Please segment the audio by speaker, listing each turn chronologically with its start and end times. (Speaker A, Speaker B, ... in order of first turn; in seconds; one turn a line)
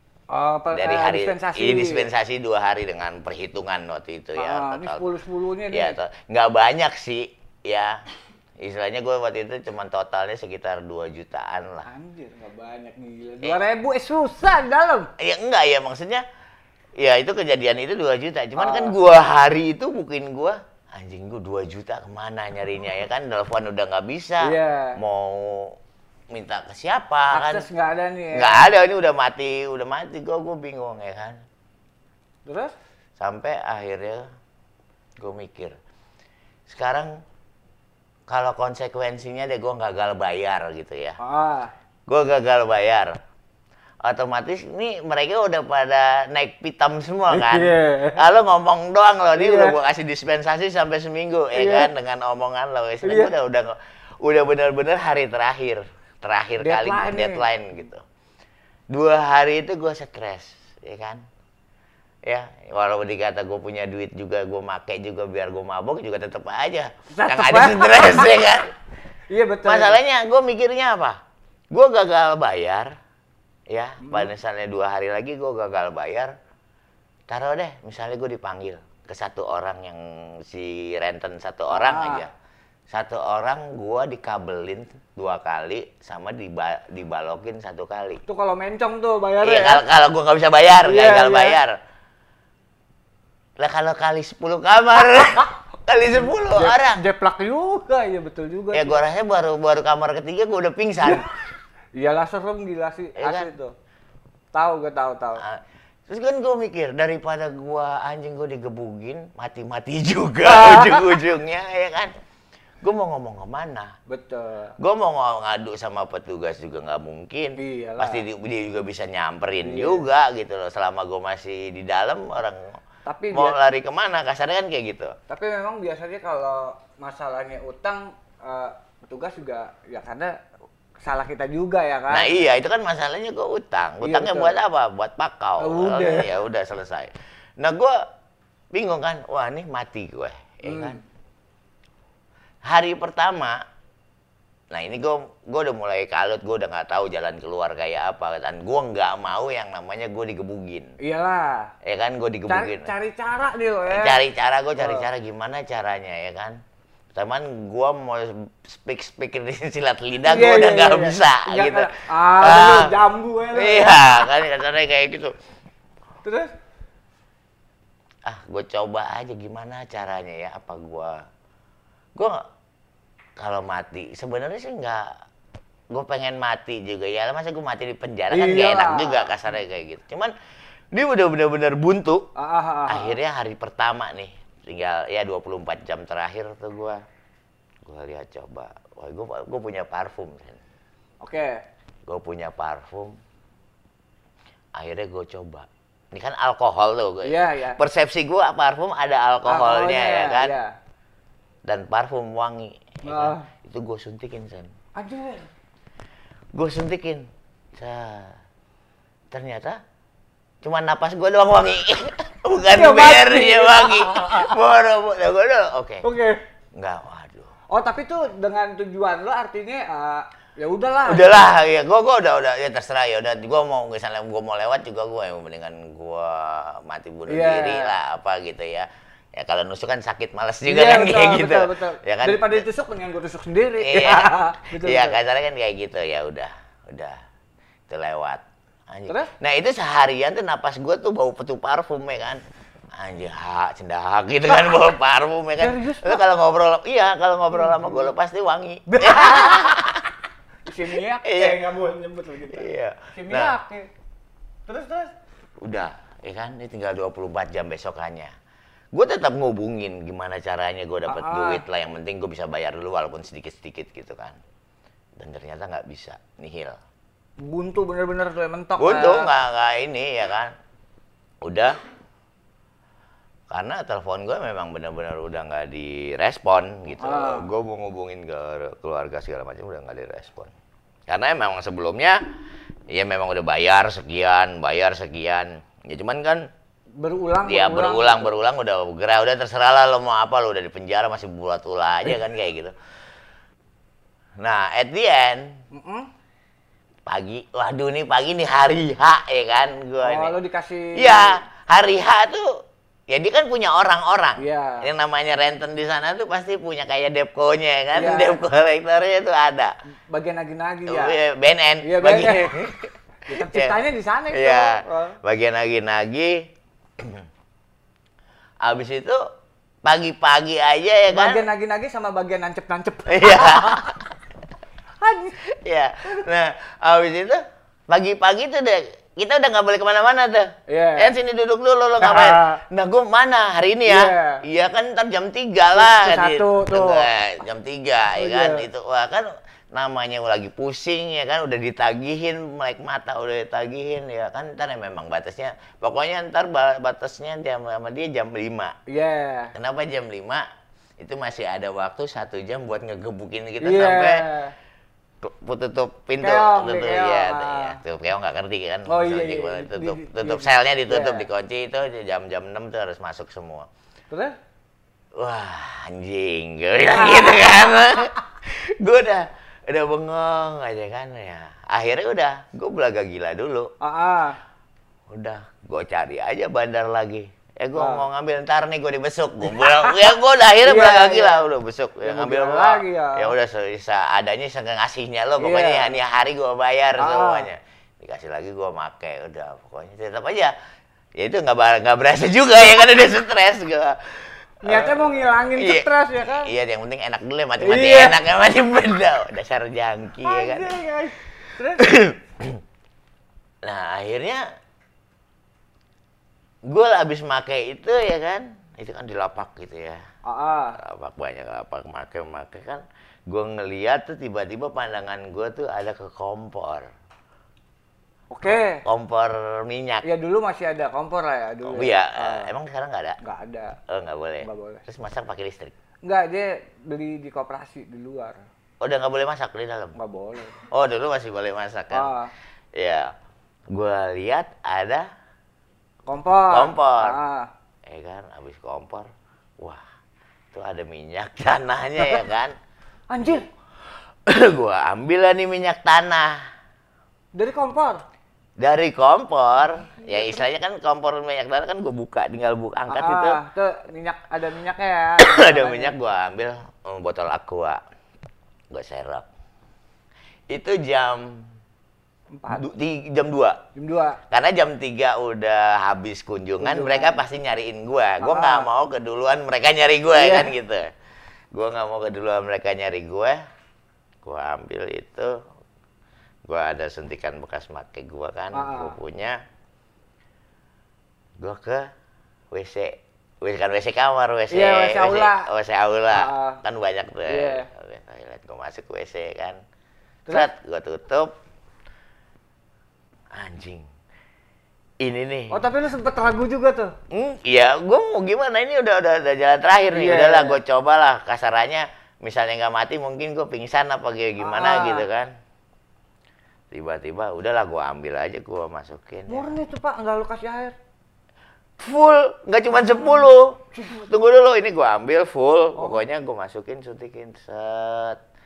Speaker A: 0.3-2.1
Speaker B: 0.7-5.1
Speaker A: 4.3-6.0
Speaker B: 5.7-8.0
Speaker B: 8.6-11.9
Speaker A: 11.8-15.1
Speaker B: 15.2-16.2
Speaker B: 17.0-25.8
Speaker A: 18.6-19.0
Speaker A: 24.4-25.0
Speaker B: 26.3-27.6
Speaker A: 27.3-28.7
Speaker B: 28.3-31.4
Speaker A: 32.5-32.7
Speaker B: 33.2-34.2
Speaker B: 35.2-35.8
Speaker B: 36.7-37.2
Speaker B: 38.3-41.2
Speaker A: 41.2-41.7
Speaker B: 42.1-43.2
Speaker B: 44.0-58.0
Speaker A: 47.3-48.2
Speaker A: 49.4-49.8
Speaker A: 51.5-51.9
Speaker A: 53.0-53.3
Speaker A: 56.6-57.5
Speaker B: 58.9-61.2
Speaker B: 62.2-68.7
Speaker A: 67.1-68.4
Speaker A: 69.3-70.0
Speaker B: 69.7-71.2
Speaker B: 71.7-72.9
Speaker B: 73.7-76.3
Speaker A: 74.0-74.3
Speaker B: 77.3-82.3
Speaker A: 81.7-82.3
Speaker B: 82.9-88.2
Speaker A: 88.3-89.8
Speaker B: 89.4-91.8
Speaker A: 90.8-91.6
Speaker B: 93.6-97.0
Speaker A: 96.5-99.0
Speaker B: 98.7-101.3
Speaker A: 101.0-101.3
Speaker A: 101.9-103.7
Speaker B: 103.2-103.5
Speaker A: 104.5-105.4
Speaker B: 105.4-112.1
Speaker A: 110.4-111.2
Speaker B: 112.8-113.9
Speaker A: 114.1-114.7
Speaker B: 114.8-122.8
Speaker A: 117.6-118.2
Speaker A: 119.6-120.0
Speaker A: 123.0-123.5
Speaker B: 123.3-125.2
Speaker A: 125.3-130.3
Speaker A: 131.0-132.5
Speaker B: 132.1-138.0
Speaker A: 134.0-134.6
Speaker A: 135.6-136.3
Speaker B: 138.7-141.0
Speaker A: 140.6-141.0
Speaker B: 142.6-143.6
Speaker B: 144.7-150.9
Speaker A: 151.0-151.7
Speaker B: 151.8-152.9
Speaker A: 152.5-154.2
Speaker B: 153.9-156.6
Speaker A: 154.8-155.1
Speaker B: 157.1-162.9
Speaker A: 160.2-164.1
Speaker B: 163.5-165.3
Speaker A: 166.2-166.5
Speaker B: 168.2-171.2
Speaker B: 173.4-175.1
Speaker B: 175.9-180.3
Speaker A: 178.3-179.3
Speaker B: 180.9-182.3
Speaker A: 182.3-183.2
Speaker B: 182.9-187.0
Speaker B: 187.8-190.6
Speaker A: 191.2-191.6
Speaker B: 192.1-193.2
Speaker B: 194.8-200.5
Speaker A: 197.2-197.8
Speaker A: 199.4-200.7
Speaker B: 201.7-204.7
Speaker A: 203.0-203.5
Speaker A: 204.9-205.5
Speaker B: 206.5-208.4
Speaker B: 209.3-209.8
Speaker B: 210.6-216.0
Speaker A: 212.7-214.6
Speaker A: 216.0-216.4
Speaker B: 216.7-217.5
Speaker A: 217.7-221.5
Speaker B: 221.0-232.6
Speaker A: 227.3-227.9
Speaker A: 230.7-235.2
Speaker B: 233.8-237.2
Speaker B: 237.9-242.4
Speaker B: 242.9-250.1
Speaker A: 245.6-246.2
Speaker A: 247.5-248.1
Speaker A: 248.9-249.8
Speaker A: 250.6-253.9
Speaker B: 251.2-251.6
Speaker B: 252.5-253.6
Speaker A: 254.7-255.1
Speaker B: 255.6-258.3
Speaker B: 258.9-264.4
Speaker A: 261.1-261.6
Speaker B: 265.2-266.8
Speaker A: 267.4-269.3
Speaker B: 268.8-270.5
Speaker B: 271.4-271.8
Speaker B: 273.5-280.5
Speaker A: 277.0-277.5
Speaker B: 281.1-282.2
Speaker B: 282.9-286.4
Speaker A: 287.0-288.3
Speaker B: 287.4-292.7
Speaker B: 294.4-295.6
Speaker A: 295.7-296.1
Speaker B: 297.1-300.3
Speaker A: 300.0-301.4
Speaker B: 300.9-309.7
Speaker A: 304.4-304.9
Speaker A: 307.9-308.4
Speaker A: 310.1-311.2
Speaker B: 310.9-313.8
Speaker A: 311.8-312.6
Speaker A: 313.3-315.2
Speaker B: 314.3-316.4
Speaker B: 318.6-319.2
Speaker B: 319.8-321.4
Speaker A: 321.1-323.9
Speaker B: 323.1-324.0
Speaker A: 325.0-325.4
Speaker B: 325.4-348.7
Speaker A: 330.7-331.1
Speaker A: 332.0-332.6
Speaker A: 333.9-334.4
Speaker A: 335.8-337.1
Speaker A: 338.1-338.6
Speaker A: 348.9-349.5
Speaker B: 349.5-350.4
Speaker B: 351.0-354.2
Speaker A: 353.6-354.5
Speaker B: 355.2-363.7
Speaker A: 356.2-357.8
Speaker A: 358.9-361.3
Speaker A: 364.1-364.4
Speaker B: 365.1-373.7
Speaker A: 366.9-368.1
Speaker A: 373.8-374.4
Speaker B: 375.1-390.5
Speaker A: 377.8-378.0
Speaker A: 379.4-380.1
Speaker A: 380.6-381.4
Speaker A: 382.0-383.3
Speaker A: 385.4-385.9
Speaker A: 387.0-387.5
Speaker B: 391.2-400.8
Speaker A: 394.6-396.5
Speaker A: 397.6-398.2
Speaker A: 400.2-402.0
Speaker B: 401.7-402.6
Speaker B: 403.6-404.4
Speaker B: 406.7-410.0
Speaker A: 410.2-410.8
Speaker B: 410.8-416.9
Speaker A: 418.3-418.8
Speaker B: 418.5-420.0
Speaker A: 420.0-422.5
Speaker B: 421.6-423.2
Speaker A: 423.2-423.8
Speaker B: 423.9-425.7
Speaker A: 424.4-424.8
Speaker A: 426.0-428.4
Speaker B: 428.8-429.9
Speaker A: 429.9-430.6
Speaker B: 430.7-432.1
Speaker A: 431.9-432.3
Speaker B: 432.8-433.1
Speaker B: 433.7-435.1
Speaker A: 436.1-437.5
Speaker B: 436.5-437.2
Speaker B: 437.9-439.1
Speaker B: 440.5-442.5
Speaker A: 442.0-442.2
Speaker A: 443.1-443.5
Speaker B: 444.3-446.4
Speaker A: 447.3-448.0
Speaker B: 448.6-453.4
Speaker A: 449.9-450.4
Speaker A: 452.9-455.9
Speaker B: 455.2-457.8
Speaker B: 458.7-459.2
Speaker B: 460.5-461.4
Speaker A: 462.3-462.7
Speaker B: 462.5-463.6
Speaker A: 463.7-464.2
Speaker B: 464.3-470.9
Speaker A: 466.6-467.2
Speaker A: 468.2-468.7
Speaker A: 470.1-470.5
Speaker B: 471.5-473.4
Speaker B: 474.2-475.3
Speaker B: 476.5-479.4
Speaker A: 478.5-478.9
Speaker B: 481.4-481.9
Speaker B: 482.5-489.6
Speaker A: 484.5-485.5
Speaker A: 486.1-486.6
Speaker A: 487.2-487.7
Speaker B: 490.3-491.3
Speaker B: 493.3-493.9
Speaker B: 495.0-495.6
Speaker A: 495.5-496.9
Speaker B: 497.1-505.3
Speaker A: 499.9-500.6
Speaker A: 504.4-505.1
Speaker B: 506.7-509.5
Speaker A: 509.3-510.8
Speaker B: 511.8-518.2
Speaker A: 512.8-513.2
Speaker A: 513.8-514.0
Speaker A: 515.7-516.0